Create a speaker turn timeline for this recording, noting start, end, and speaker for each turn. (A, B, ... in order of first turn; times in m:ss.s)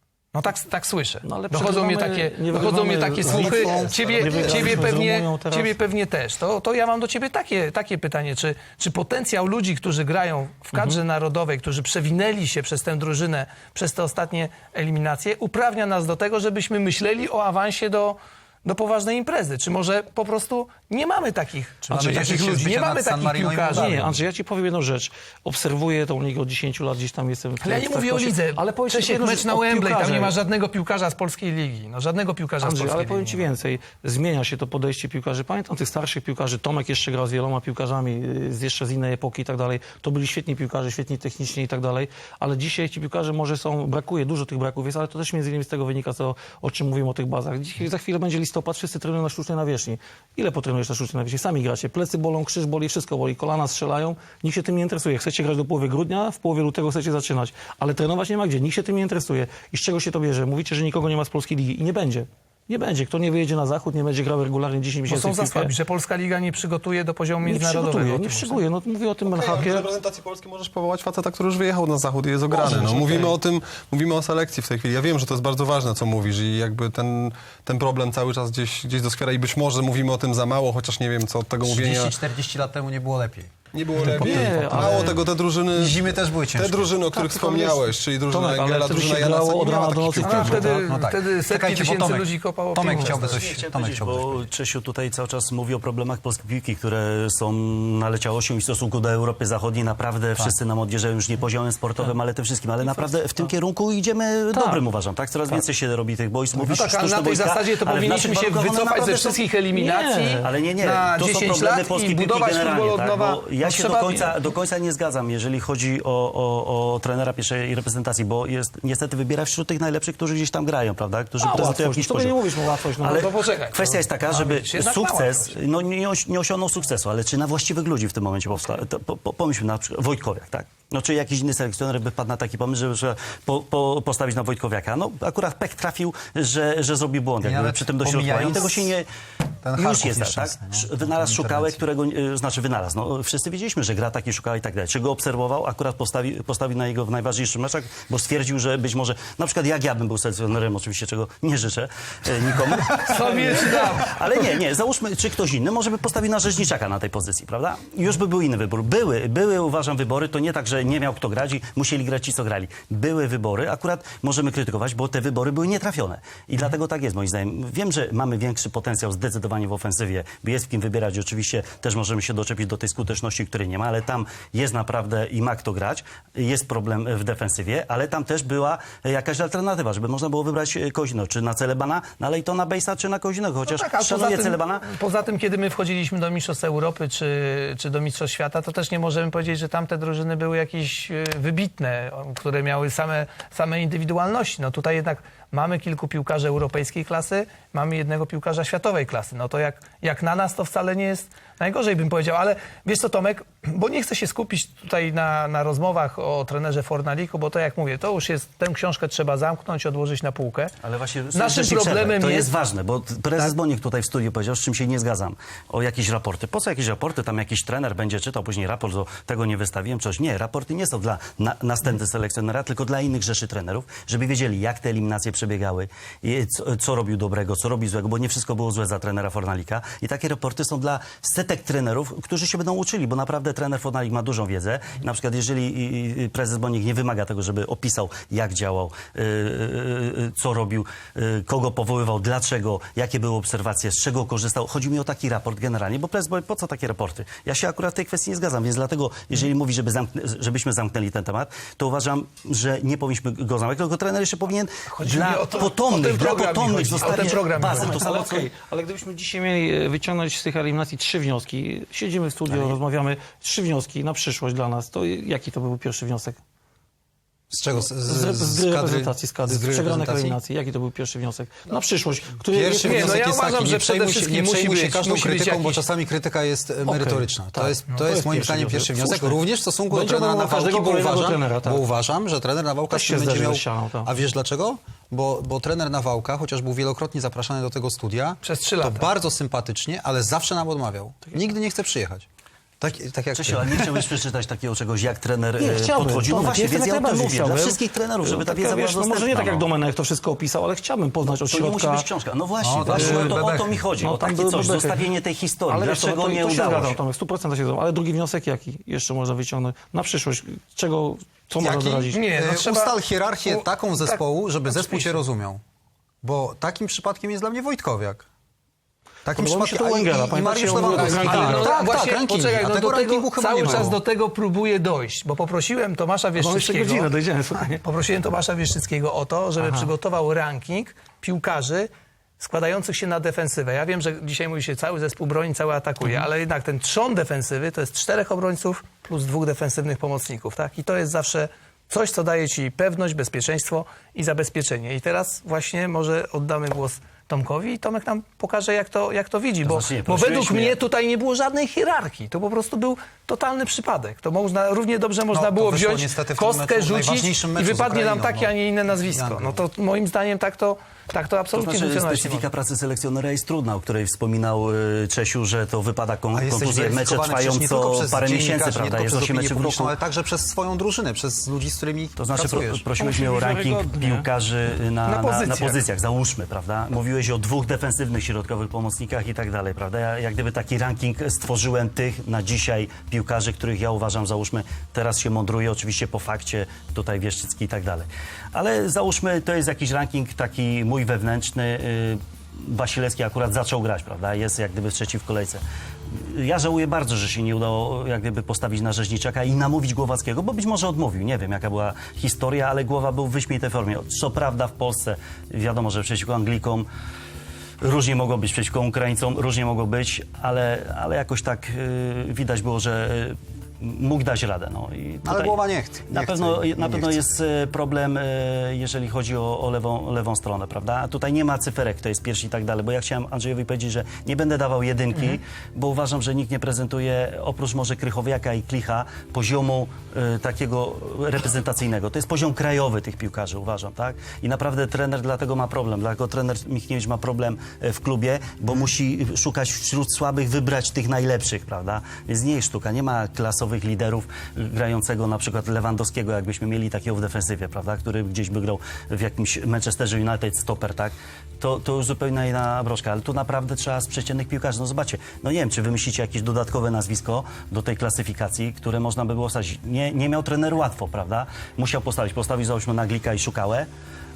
0:00.3-0:23.9 A
0:01.2-0:05.8 B
0:03.3-0:04.9 C
0:10.7-0:11.0 B
0:21.8-0:24.2 C
0:23.7-0:30.4 B
0:27.6-0:33.5 A
0:32.6-1:05.7 B
1:05.1-1:08.6 A
1:07.4-1:09.9 B
1:09.3-1:22.1 D
1:12.6-1:13.3 A
1:21.6-1:23.5 C
1:23.7-1:30.4 D
1:23.9-1:25.2 B
1:24.0-1:27.0 C
1:27.1-1:30.8 B
1:30.2-1:34.4 C
1:30.2-1:33.2 A
1:33.0-2:19.1 E
1:44.5-1:44.8 B
1:46.7-1:54.2 A
1:49.8-1:50.4 B
2:01.4-2:03.2 B
2:03.2-2:05.5 A
2:17.4-2:18.9 C
2:19.6-2:21.8 C
2:19.7-3:05.0 E
2:33.1-2:34.1 A
3:03.7-3:30.7 A
3:30.8-4:18.5 E
3:31.4-3:32.4 A
4:15.0-4:18.0 A
4:17.8-4:26.4 B
4:27.5-4:30.4 C
4:27.7-4:33.2 B
4:32.5-4:52.2 C
4:32.8-4:35.8 A
4:36.8-4:41.8 B
4:42.9-4:44.1 B
4:48.4-4:49.1 A
4:52.8-4:54.1 C
4:53.3-4:59.7 E
4:55.6-5:02.1 B
5:01.3-5:07.0 E
5:02.6-5:03.8 C
5:02.9-5:05.1 B
5:05.7-5:12.2 B
5:11.6-5:15.6 C
5:12.1-5:15.2 A
5:16.2-5:18.2 C
5:19.2-5:24.0 C
5:19.3-5:21.8 B
5:20.7-5:27.1 A
5:23.6-5:23.9 B
5:26.4-5:27.8 B
5:27.8-6:02.5 A
5:29.6-5:29.9 B
5:49.6-5:50.8 E
5:55.3-5:59.6 C
6:01.5-6:10.0 E
6:06.3-6:12.8 C
6:12.2-6:46.9 E
6:13.0-6:14.3 B
6:15.1-6:15.7 A
6:47.8-7:43.9 E
6:55.2-6:57.2 C